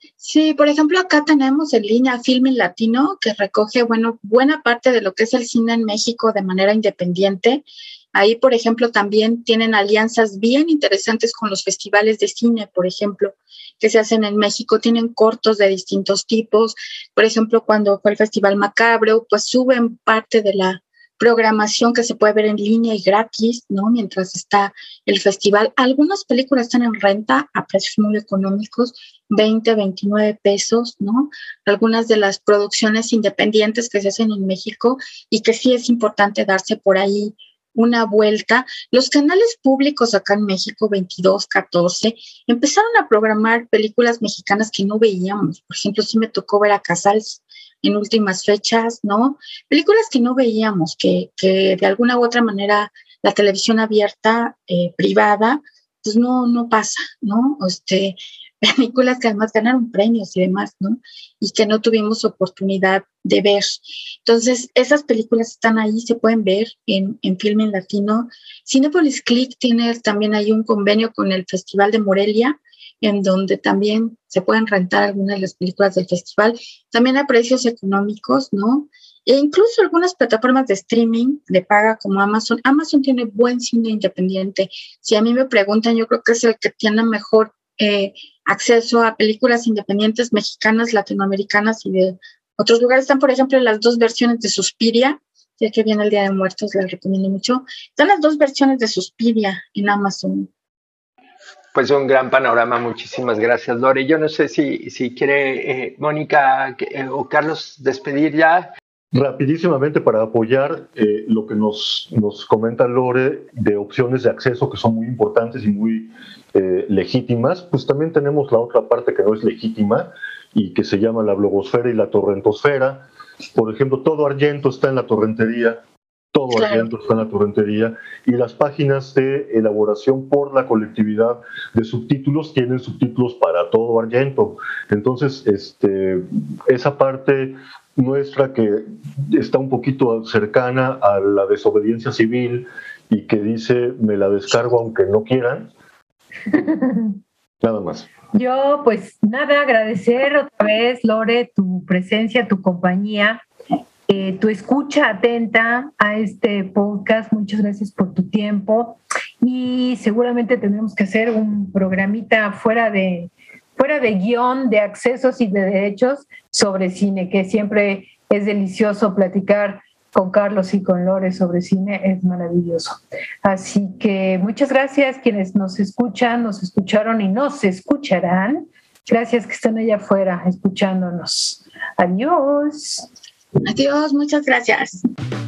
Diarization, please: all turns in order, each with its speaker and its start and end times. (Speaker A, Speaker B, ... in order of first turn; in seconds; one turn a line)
Speaker A: 0.2-100.5
Speaker B: 101.7-108.7
Speaker C: 109.1-125.8
Speaker C: 126.3-145.7
Speaker A: 126.5-126.9
Speaker D: 146.5-147.2
Speaker C: 147.6-148.1
Speaker D: 148.3-153.4
Speaker D: 154.1-183.1
Speaker A: 183.6-185.1